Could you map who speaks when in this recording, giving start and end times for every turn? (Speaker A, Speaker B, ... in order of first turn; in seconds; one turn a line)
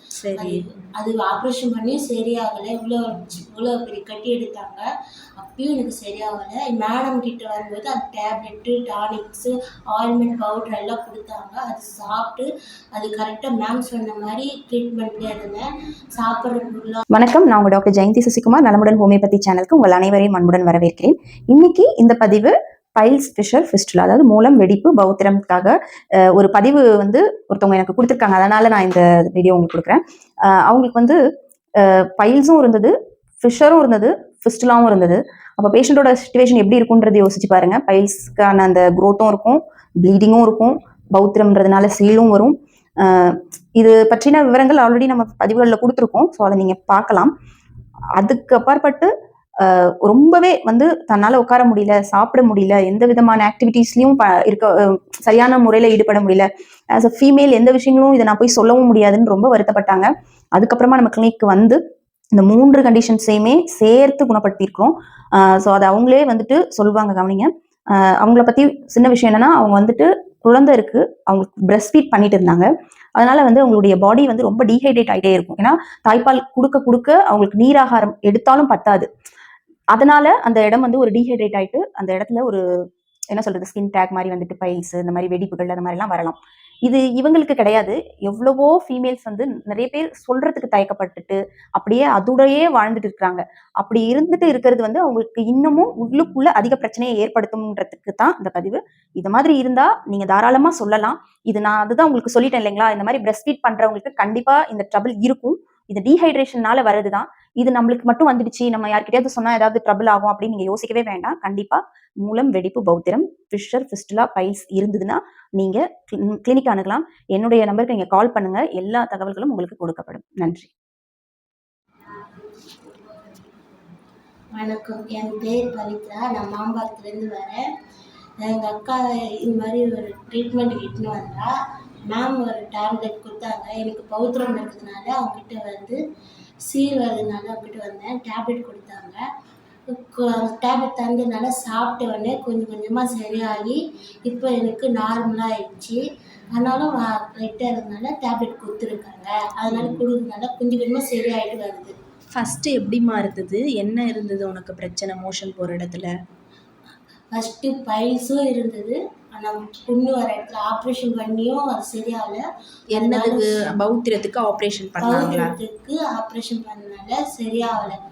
Speaker A: 0.2-0.9
Speaker B: 0.3-4.8
Speaker B: 5.4-17.0
Speaker C: 17.1-25.8
Speaker C: 26.3-31.2
Speaker C: 31.8-47.3
Speaker C: 48.2-61.8
Speaker C: 62.3-79.1
Speaker C: 79.9-82.6
Speaker C: 83.3-120.7
Speaker B: 124.5-127.6
Speaker B: 128.4-131.5
Speaker B: 132.1-136.0
Speaker B: 136.7-139.2
Speaker B: 139.9-146.0
Speaker B: 146.5-151.9
Speaker A: 149.7-150.0
Speaker A: 152.3-156.1
Speaker B: 157.3-163.5
Speaker A: 162.9-165.6
Speaker B: 165.0-168.0